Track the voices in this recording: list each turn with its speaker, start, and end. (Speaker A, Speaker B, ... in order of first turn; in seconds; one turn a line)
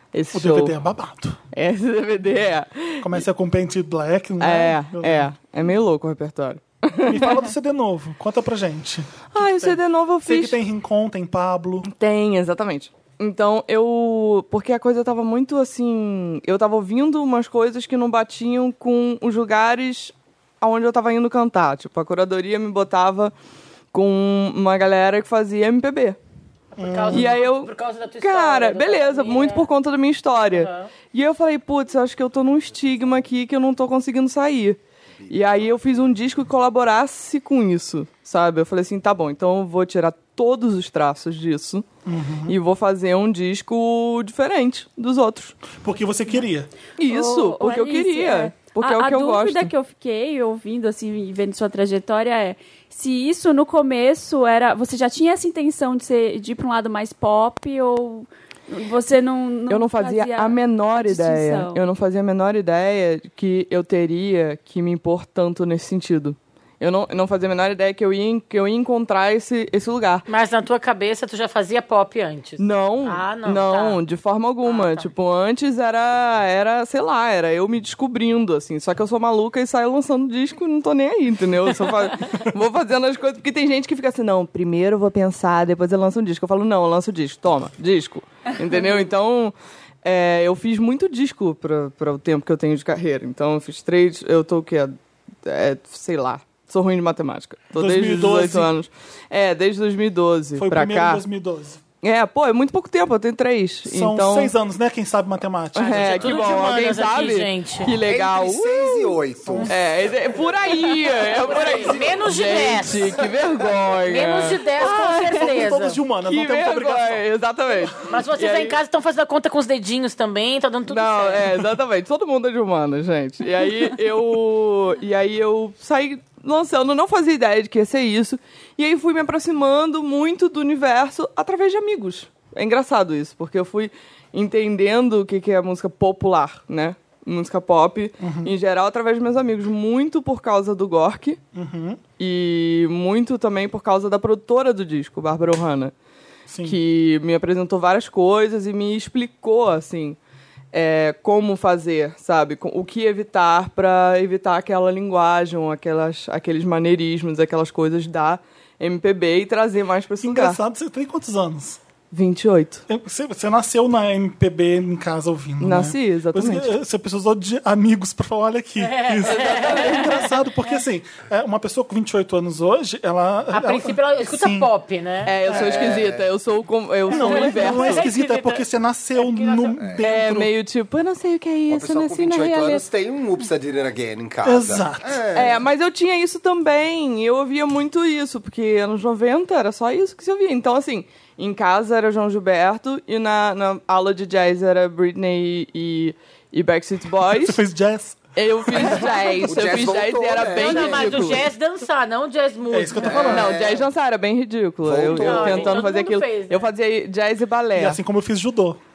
Speaker A: 0.1-0.8
Speaker B: 0.3-1.4
Speaker A: 1.5-3.2
Speaker B: 3.0-5.3
Speaker A: 4.4-7.5
Speaker B: 7.0-11.9
Speaker A: 9.3-10.6
Speaker A: 11.8-23.3
Speaker A: 23.9-26.2
Speaker C: 26.7-29.7
Speaker B: 26.8-27.3
Speaker A: 27.1-41.9
Speaker C: 30.5-30.9
Speaker D: 35.2-35.7
Speaker B: 42.0-42.5
Speaker A: 42.5-45.6
Speaker B: 45.7-46.7
Speaker A: 47.0-49.7
Speaker E: 47.0-61.8
Speaker A: 59.7-70.2
Speaker C: 70.3-74.0
Speaker A: 72.6-101.2
Speaker C: 74.7-75.1
Speaker B: 97.8-98.7
Speaker B: 100.5-101.8
Speaker A: 102.0-104.5
Speaker B: 103.8-106.4
Speaker A: 105.8-114.9
Speaker C: 105.8-107.9
Speaker D: 108.0-110.3
Speaker D: 111.2-112.2
Speaker C: 111.5-113.3
Speaker C: 114.0-116.0
Speaker B: 114.8-117.2
Speaker A: 116.2-118.8
Speaker C: 118.0-121.5
Speaker A: 120.9-141.4
Speaker B: 138.2-138.5
Speaker B: 141.5-142.0
Speaker A: 142.2-145.9
Speaker B: 146.5-146.8
Speaker A: 146.6-150.2
Speaker A: 150.7-160.6
Speaker B: 160.2-161.8
Speaker A: 162.1-162.8
Speaker B: 162.9-174.7
Speaker A: 165.6-166.7
Speaker C: 168.8-170.1
Speaker A: 169.2-170.3
Speaker C: 173.5-175.3
Speaker A: 175.2-178.1
Speaker D: 175.4-176.2
Speaker B: 175.5-175.8
Speaker B: 177.1-180.5
Speaker C: 177.1-178.6
Speaker C: 179.2-179.8
Speaker A: 180.0-182.8
Speaker D: 181.7-185.6
Speaker B: 184.4-185.2
Speaker A: 185.3-197.6
Speaker B: 197.3-199.0
Speaker A: 198.3-201.4
Speaker D: 199.4-201.4
Speaker C: 200.5-203.3
Speaker B: 202.7-203.5
Speaker D: 203.0-203.8
Speaker A: 203.2-208.0
Speaker D: 204.8-205.8
Speaker C: 205.1-206.7
Speaker B: 207.7-208.8